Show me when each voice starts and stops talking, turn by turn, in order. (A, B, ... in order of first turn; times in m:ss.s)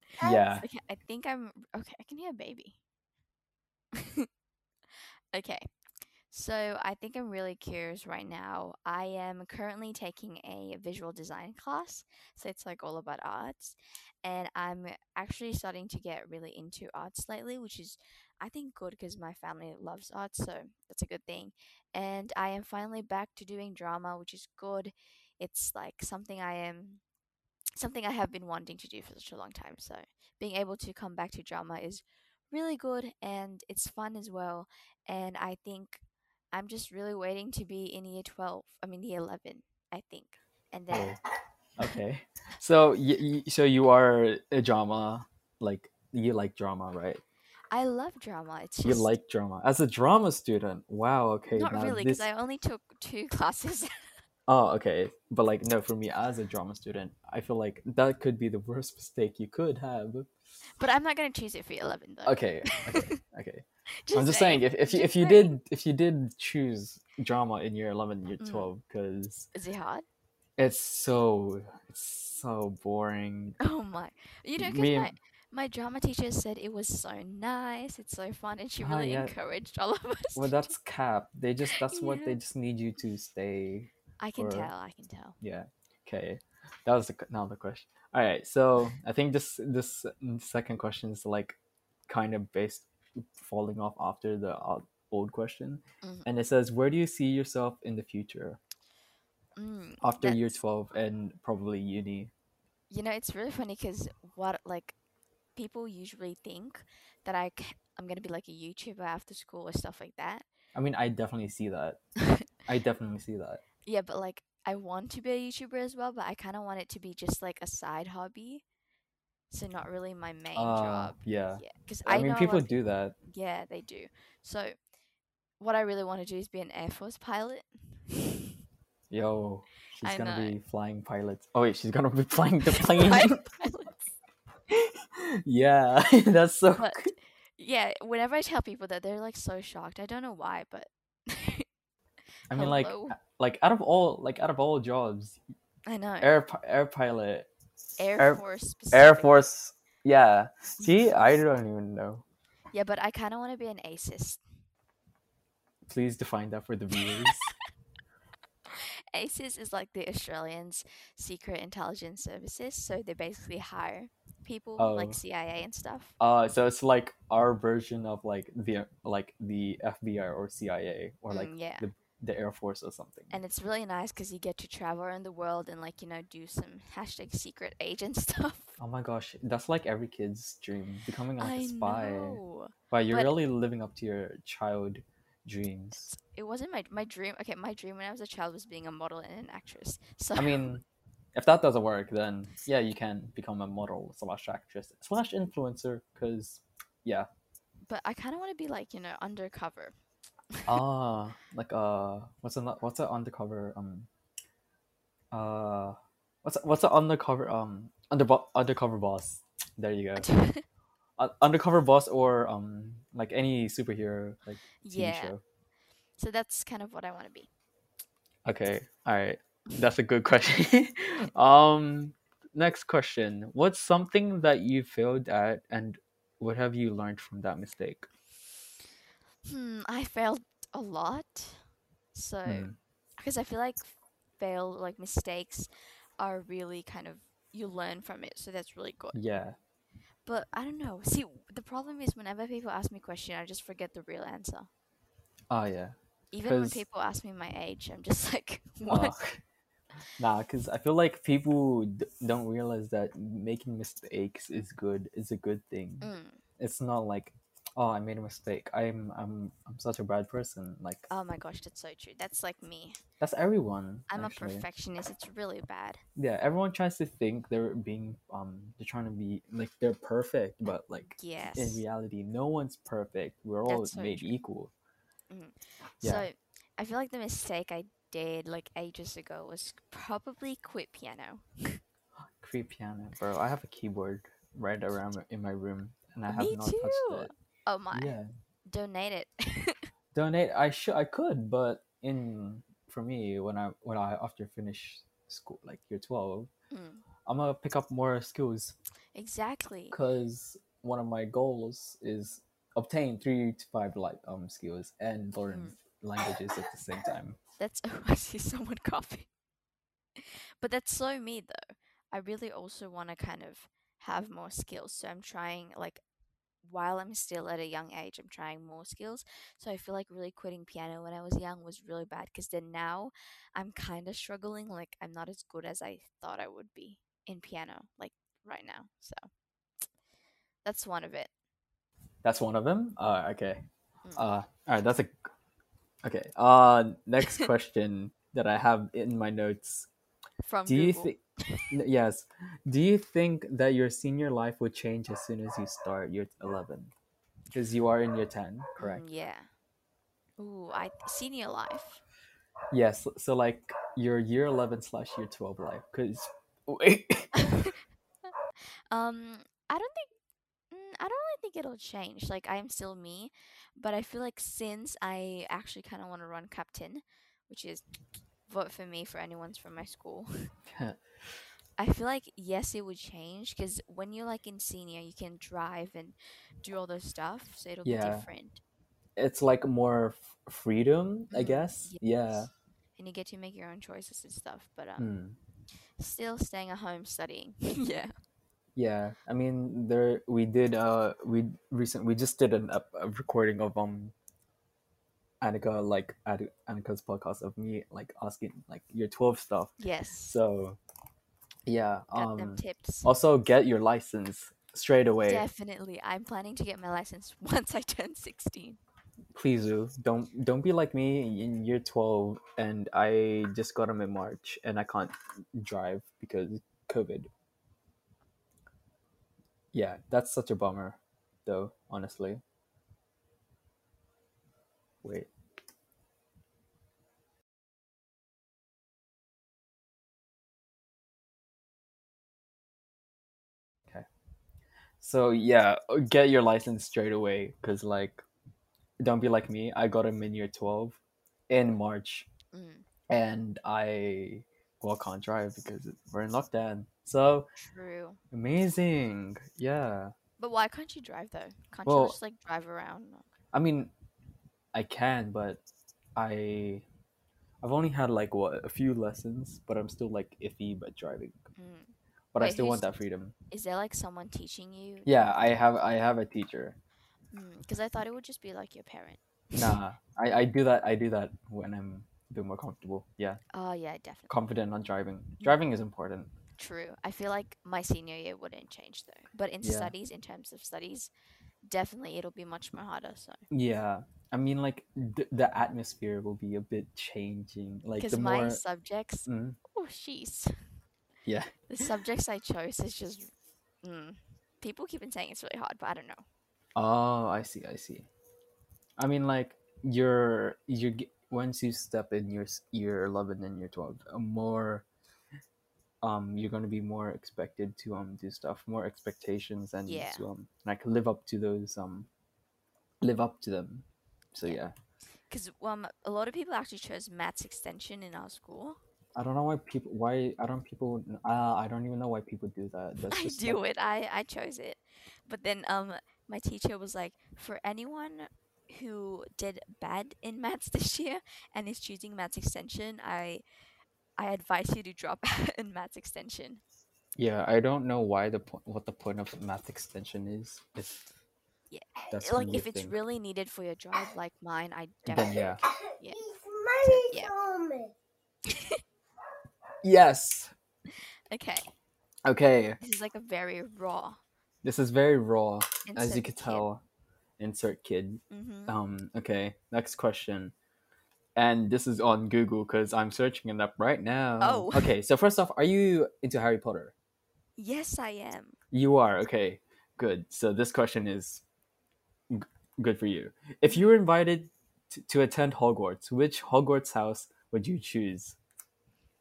0:00.2-0:00.7 A
0:00.6-0:02.8 B
0:03.9-0:04.3 B
0:05.3-0:05.7 B
0:06.3-0:27.0 B
0:27.8-0:41.2 B
0:40.9-0:41.2 A
0:41.8-0:47.2 A
0:47.7-0:49.1 B
0:48.8-0:52.2 A
0:51.6-0:53.9 B
0:54.5-1:00.3 A
1:00.8-1:03.2 B
1:02.2-1:09.5 A
1:03.9-1:05.6 B
1:08.4-1:08.7 B
1:09.5-1:10.0 B
1:10.6-1:13.6 A
1:13.6-1:20.7 B
1:14.6-1:15.1 A
1:18.8-1:19.3 A
1:20.4-1:24.7 A
1:21.7-1:22.4 B
1:24.2-1:25.4 B
1:25.4-1:31.6 A
1:32.1-1:38.6 A
1:39.6-1:40.4 B
1:40.0-1:42.3 A
1:42.9-1:45.0 B
1:45.6-1:50.4 B
1:50.8-1:52.0 A
1:52.7-1:53.6 A
1:53.8-1:58.6 B
1:59.5-2:04.8 B
2:00.6-2:03.2 A
2:05.6-2:08.5 B
2:09.1-2:13.4 A
2:10.0-2:10.6 B
2:12.9-2:14.2 B
2:14.7-2:17.1 A
2:16.8-2:21.7 B
2:22.5-2:25.4 A
2:22.5-2:23.2 B
2:25.9-2:26.3 B
2:26.2-2:27.5 A
2:28.0-2:29.4 B
2:28.2-2:32.2 A
2:30.8-2:31.1 B
2:32.7-2:34.4 B
2:35.9-2:37.5 A
2:38.7-2:46.1 B
2:44.8-2:45.2 A
2:46.2-2:53.4 A
2:51.3-2:51.9 B
2:53.3-2:58.8 B
2:58.8-3:02.4 A
3:01.4-3:03.3 B
3:02.9-3:06.1 A
3:06.1-3:10.7 B
3:10.4-3:10.8 A
3:11.4-3:17.3 A
3:17.9-3:20.0 B
3:20.7-3:24.1 A
3:25.3-3:30.3 A
3:30.2-3:30.6 B
3:31.2-3:35.4 A
3:34.8-3:35.3 B
3:36.2-3:37.5 B
3:38.4-3:48.1 A
3:49.5-3:59.2 B
3:52.4-3:52.8 A
3:59.1-3:59.6 A
4:00.2-4:04.7 B
4:05.5-4:06.8 A
4:06.3-4:09.1 B
4:08.9-4:09.4 A
4:10.2-4:21.1 A
4:16.0-4:16.4 B
4:21.1-4:23.0 B
4:23.2-4:24.7 A
4:24.1-4:26.0 B
4:26.2-4:34.7 A
4:31.2-4:31.8 B
4:33.7-4:34.3 B
4:35.3-4:41.8 B
4:36.0-4:36.3 A
4:42.4-4:47.3 A
4:46.3-4:48.1 B
4:47.9-4:48.3 A
4:48.7-4:49.9 B
4:50.1-4:56.5 A
4:56.7-4:57.0 B
4:57.3-4:58.8 A
4:59.2-5:00.0 B
4:59.9-5:07.4 A
5:05.4-5:05.8 B
5:07.6-5:09.3 B
5:10.2-5:16.0 B
5:16.6-5:29.2 B
5:30.6-5:31.3 B
5:32.2-5:33.6 A
5:34.2-5:35.3 A
5:36.0-5:39.9 A
5:40.4-5:41.7 B
5:40.7-5:41.2 A
5:41.7-5:46.9 A
5:47.5-5:49.0 A
5:48.8-5:49.5 B
5:50.4-5:52.0 B
5:52.7-5:57.5 A
5:57.4-5:57.8 B
5:58.9-6:00.1 B
6:00.7-6:07.8 B
6:08.5-6:10.5 B
6:10.7-6:11.0 A
6:11.8-6:18.6 B
6:17.8-6:18.3 A
6:19.2-6:22.5 A
6:21.3-6:22.1 B
6:23.0-6:25.1 B
6:25.0-6:25.4 A
6:26.0-6:28.1 B
6:28.8-6:34.2 A
6:35.4-6:39.7 A
6:39.8-6:40.4 B
6:40.3-6:40.8 A
6:41.7-6:45.4 A
6:42.1-6:43.1 B
6:45.2-6:48.8 B
6:49.3-6:57.3 A
6:59.7-7:02.4 A
7:05.0-7:05.3 A
7:15.0-7:18.2 A
7:19.0-7:22.3 A
7:22.5-7:22.9 B
7:23.1-7:27.5 A
7:27.7-7:28.2 B
7:28.3-7:30.1 A
7:30.4-7:33.3 B
7:31.9-7:32.2 A
7:33.5-7:33.9 A
7:34.7-7:35.6 A
7:36.2-7:36.8 A
7:37.6-7:41.4 A
7:41.6-7:42.9 B
7:42.3-7:43.4 A
7:43.5-7:45.5 B
7:45.1-7:46.8 A
7:47.3-7:49.7 B
7:49.6-7:53.4 A
7:53.5-7:54.3 B
7:54.3-7:56.3 A
7:56.6-8:01.1 B
7:59.6-7:59.9 A
8:01.7-8:03.4 B
8:03.5-8:08.6 A
8:08.0-8:10.5 B
8:09.3-8:09.6 A
8:11.3-8:11.9 A
8:11.7-8:13.3 B
8:13.8-8:16.2 B
8:16.8-8:18.1 A
8:19.0-8:24.9 A
8:26.0-8:32.1 A
8:29.9-8:30.3 B
8:33.0-8:34.7 A
8:35.3-8:38.8 B
8:39.2-8:43.6 A
8:43.1-8:53.4 B
8:54.2-8:56.6 B
8:57.2-9:01.0 A
9:01.7-9:06.2 B
9:02.1-9:02.9 A
9:05.1-9:05.6 A
9:05.7-9:07.9 C
9:06.8-9:07.3 B
9:08.5-9:08.8 B
9:09.8-9:10.5 A
9:11.3-9:11.7 B
9:12.2-9:12.8 A
9:12.8-9:14.2 B
9:14.6-9:16.8 A
9:15.9-9:16.7 B
9:17.4-9:20.5 A
9:18.3-9:18.8 B
9:21.4-9:26.9 A
9:24.4-9:24.9 B
9:27.6-9:28.6 B
9:28.7-9:31.4 A
9:32.3-9:38.4 A